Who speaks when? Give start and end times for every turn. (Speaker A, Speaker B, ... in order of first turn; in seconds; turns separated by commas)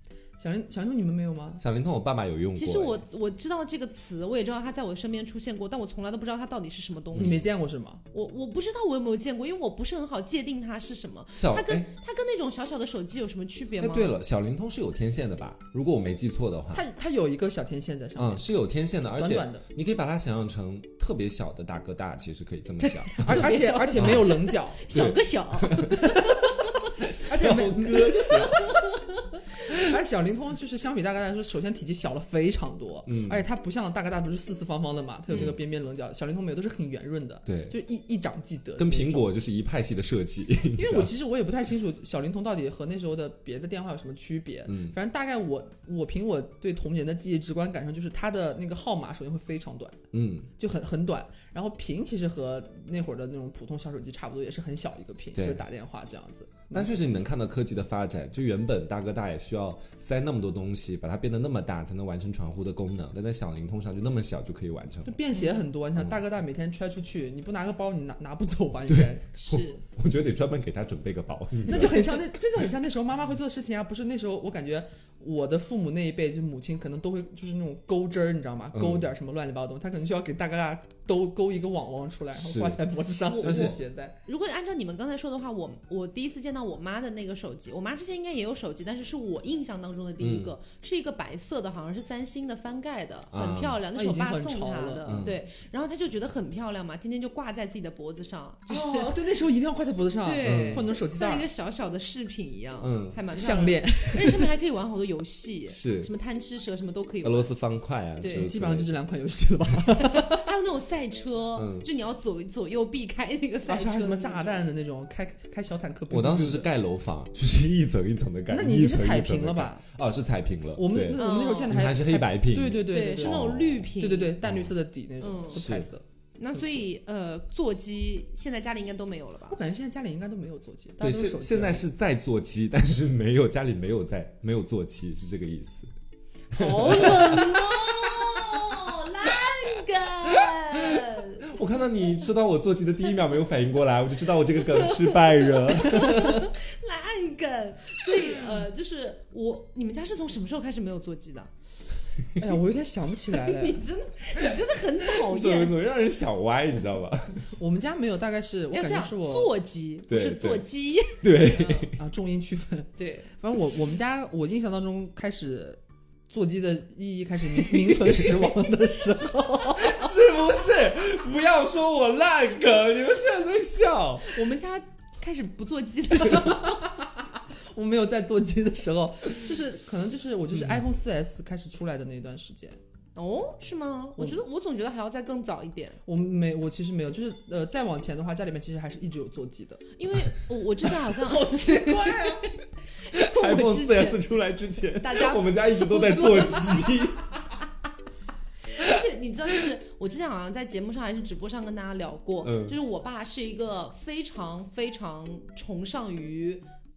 Speaker A: 0.4-1.6, Speaker B: 1.6-3.0, Speaker C: 2.5-7.5, Speaker B: 7.1-7.5, Speaker A: 7.2-8.0, Speaker C: 8.1-14.1, Speaker B: 11.3-11.9, Speaker B: 13.8-16.9, Speaker A: 16.7-18.5, Speaker B: 18.2-24.3, Speaker A: 19.2-19.6, Speaker C: 22.8-26.8, Speaker A: 23.2-24.8, Speaker B: 24.9-26.2, Speaker A: 26.0-26.4, Speaker B: 27.0-28.7, Speaker A: 27.2-28.6, Speaker C: 28.1-29.4, Speaker A: 29.7-39.3, Speaker B: 33.1-33.4, Speaker B: 35.3-35.6, Speaker B: 37.5-37.7, Speaker B: 38.8-41.1, Speaker A: 40.8-50.0, Speaker B: 44.7-44.9, Speaker B: 50.1-50.5, Speaker A: 50.6-57.2, Speaker B: 55.4-55.6, Speaker B: 56.7-65.2, Speaker A: 65.1-69.3, Speaker C: 65.3-65.6, Speaker B: 68.9-72.3, Speaker C: 69.4-69.8, Speaker A: 71.7-84.2, Speaker B: 78.7-79.1, Speaker B: 82.3-82.8, Speaker C: 83.3-99.1, Speaker B: 83.4-83.8, Speaker B: 90.2-90.5, Speaker B: 93.3-93.8, Speaker A: 93.9-95.3, Speaker B: 95.1-95.4, Speaker A: 98.7-101.5, Speaker C: 100.2-107.5, Speaker B: 100.4-100.8, Speaker B: 102.8-103.2, Speaker A: 103.3-104.5, Speaker B: 105.7-106.1, Speaker B: 107.2-108.9, Speaker C: 108.2-108.5, Speaker A: 108.3-110.5, Speaker C: 110.0-114.7, Speaker B: 111.6-111.9, Speaker A: 113.7-116.7, Speaker B: 116.1-124.7, Speaker A: 118.5-119.8, Speaker A: 120.8-126.0, Speaker C: 121.1-121.7, Speaker C: 122.9-124.4, Speaker C: 125.2-125.7, Speaker B: 125.5-125.9, Speaker C: 126.4-129.6, Speaker A: 129.5-131.8, Speaker B: 131.0-135.9, Speaker B: 136.5-138.8, Speaker C: 136.5-141.6, Speaker B: 140.8-146.5, Speaker C: 144.6-151.5, Speaker A: 152.4-153.8, Speaker C: 153.3-155.8, Speaker B: 155.1-157.4, Speaker A: 157.6-159.5, Speaker C: 158.7-161.9, Speaker B: 160.1-160.7, Speaker B: 161.2-162.0, Speaker A: 162.0-170.0, Speaker C: 163.0-163.3, Speaker B: 169.8-174.4, Speaker C: 174.2-176.8, Speaker A: 176.2-182.8, Speaker B: 180.6-180.8, Speaker C: 183.2-186.0, Speaker A: 186.1-189.9, Speaker C: 190.0-194.2, Speaker A: 191.2-192.4, Speaker B: 193.1-197.2, Speaker C: 195.0-196.9, Speaker C: 198.7-206.7, Speaker B: 202.4-202.8